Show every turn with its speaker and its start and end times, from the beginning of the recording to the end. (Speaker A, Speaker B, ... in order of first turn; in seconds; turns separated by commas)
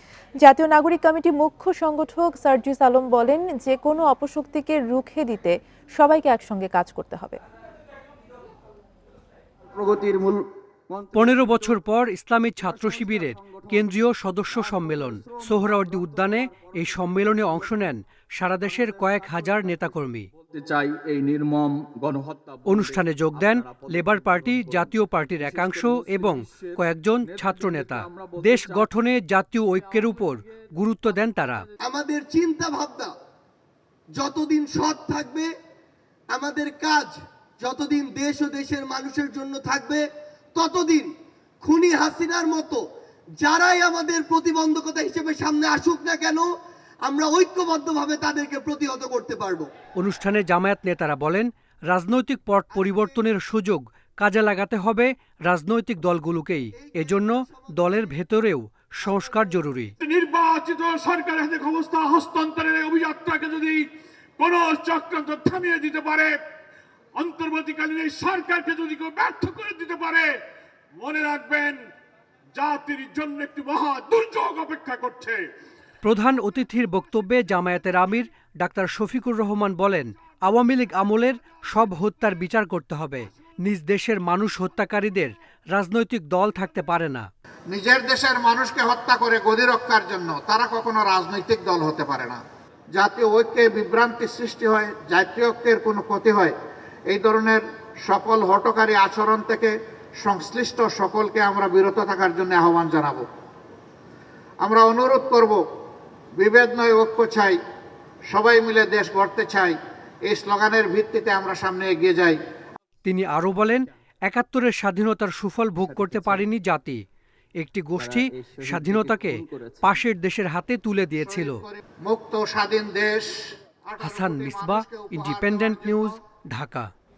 Speaker A: 0.4-7.4, Speaker B: 9.7-11.8, Speaker C: 11.1-20.3, Speaker B: 12.6-17.9, Speaker B: 18.6-28.9, Speaker C: 22.6-31.6, Speaker B: 29.8-30.4, Speaker B: 31.1-31.6, Speaker D: 31.9-33.1, Speaker D: 34.1-35.5, Speaker D: 36.3-42.8, Speaker D: 43.4-46.5, Speaker D: 47.0-49.7, Speaker C: 50.0-59.9, Speaker D: 52.8-53.1, Speaker D: 56.7-58.3, Speaker D: 59.0-59.7, Speaker E: 60.0-66.3, Speaker E: 67.2-70.3, Speaker E: 71.0-71.9, Speaker E: 72.5-75.5, Speaker C: 76.0-87.3, Speaker F: 87.7-92.4, Speaker F: 93.0-96.5, Speaker F: 97.1-103.2, Speaker F: 104.6-105.6, Speaker F: 106.4-107.5, Speaker F: 108.3-109.8, Speaker F: 110.3-112.4, Speaker C: 113.0-117.0, Speaker B: 115.8-116.5, Speaker C: 117.6-121.6, Speaker B: 118.0-120.0, Speaker F: 121.2-126.2, Speaker C: 124.0-126.9